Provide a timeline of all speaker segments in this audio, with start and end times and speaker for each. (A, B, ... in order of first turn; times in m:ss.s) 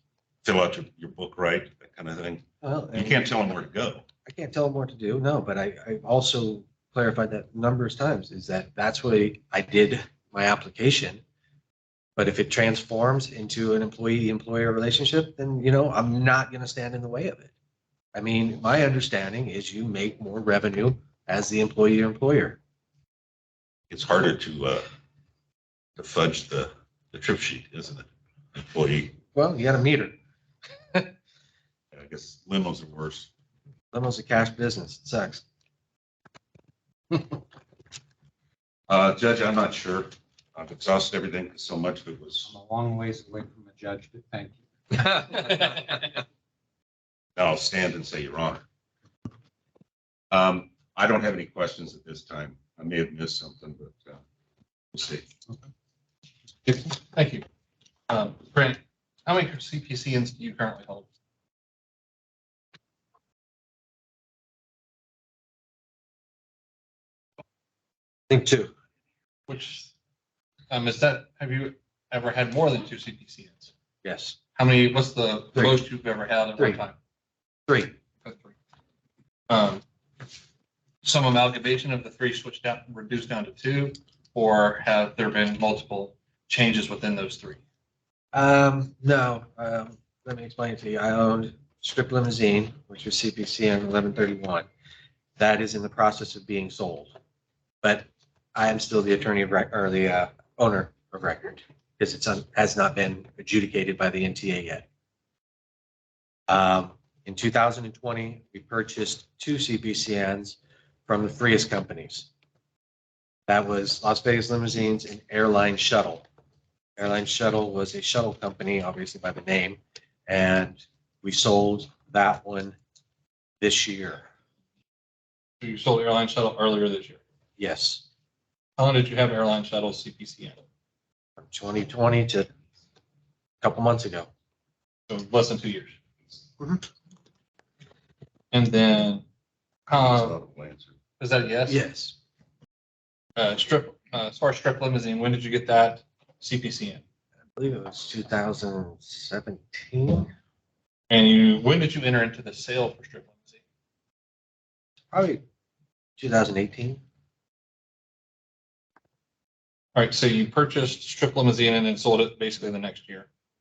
0:00.4-0:04.0 A
0:02.6-0:03.6 B
0:04.3-0:11.2 B
0:12.2-0:17.5 B
0:18.1-0:22.6 B
0:23.9-0:24.8 A
0:26.0-0:29.2 A
0:29.3-0:30.2 B
0:31.9-0:33.3 A
0:33.9-0:35.4 B
0:37.1-0:37.4 B
0:38.9-0:42.5 A
0:42.4-0:46.1 C
0:47.4-0:48.6 A
0:50.3-0:54.2 A
0:54.9-0:55.3 A
0:56.7-0:57.4 D
0:58.1-1:01.1 D
1:08.3-1:08.7 B
1:09.5-1:09.9 D
1:10.7-1:13.7 D
1:14.0-1:14.4 B
1:14.6-1:17.0 D
1:17.7-1:17.9 B
1:18.2-1:18.5 D
1:19.5-1:19.8 D
1:21.0-1:27.6 D
1:28.3-1:34.7 B
1:35.4-1:37.2 B
1:37.8-1:44.9 B
1:46.5-1:52.3 B
1:53.5-1:56.2 B
1:57.0-2:02.8 B
2:03.6-2:04.3 B
2:05.6-2:07.2 D
2:07.6-2:08.0 B
2:08.8-2:10.6 D
2:11.4-2:12.5 B
2:13.6-2:14.3 B
2:15.1-2:15.9 D
2:16.6-2:16.8 B
2:18.5-2:19.2 D
2:19.9-2:20.4 D
2:19.9-2:21.0 A
2:21.2-2:21.8 D
2:21.7-2:22.2 B
2:23.4-2:27.0 D
2:27.6-2:30.3 B
2:31.1-2:33.6 D
2:35.1-2:35.4 B
2:36.2-2:37.0 B
2:40.0-2:43.3 D